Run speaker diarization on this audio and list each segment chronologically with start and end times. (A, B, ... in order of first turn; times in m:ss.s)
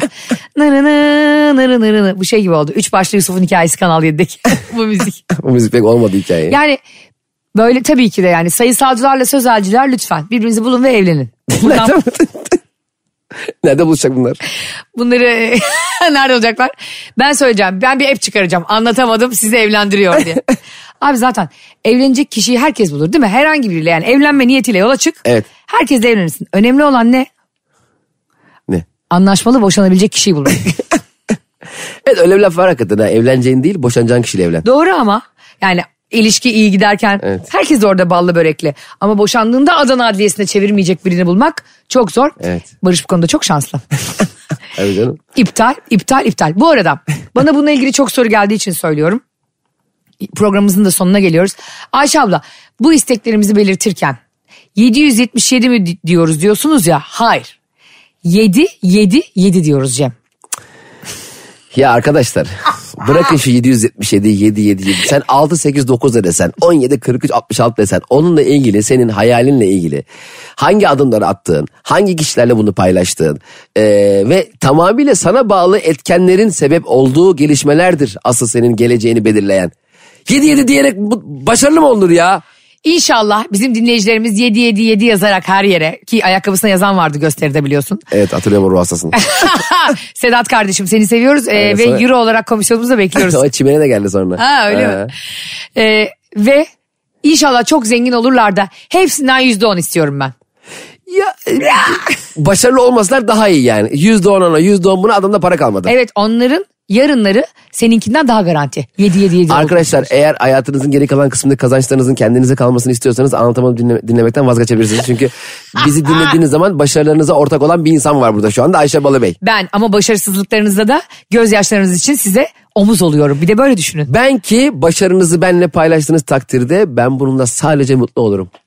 0:00.6-0:05.2 A
0:05.3-0:06.6 B
0:06.5-0:06.8 A
0:07.5-0:12.0 A
0:11.5-0:12.6 B
0:13.6-0:14.4 B
0:15.0-0:20.4 A
0:21.0-0:27.3 A
0:29.1-0:30.8 A
0:32.0-0:34.6 B
0:34.6-0:43.8 A
0:42.4-0:42.7 B
0:44.8-0:45.2 B
0:45.3-0:49.2 A
0:50.2-0:54.2 A
0:54.8-0:57.5 A
0:58.2-1:00.1 A
1:01.7-1:10.0 B
1:10.6-1:19.7 B
1:20.3-1:22.4 B
1:22.8-1:28.0 A
1:28.1-1:29.2 B
1:29.1-1:33.4 A
1:31.5-1:32.0 B
1:33.2-1:35.1 B
1:34.4-1:35.1 A
1:35.8-1:36.7 A
1:37.2-1:40.3 A
1:41.1-1:45.9 B
1:41.6-1:42.1 A
1:45.8-1:50.1 A
1:49.5-1:59.4 B
1:59.4-2:04.1 A
2:04.1-2:08.5 B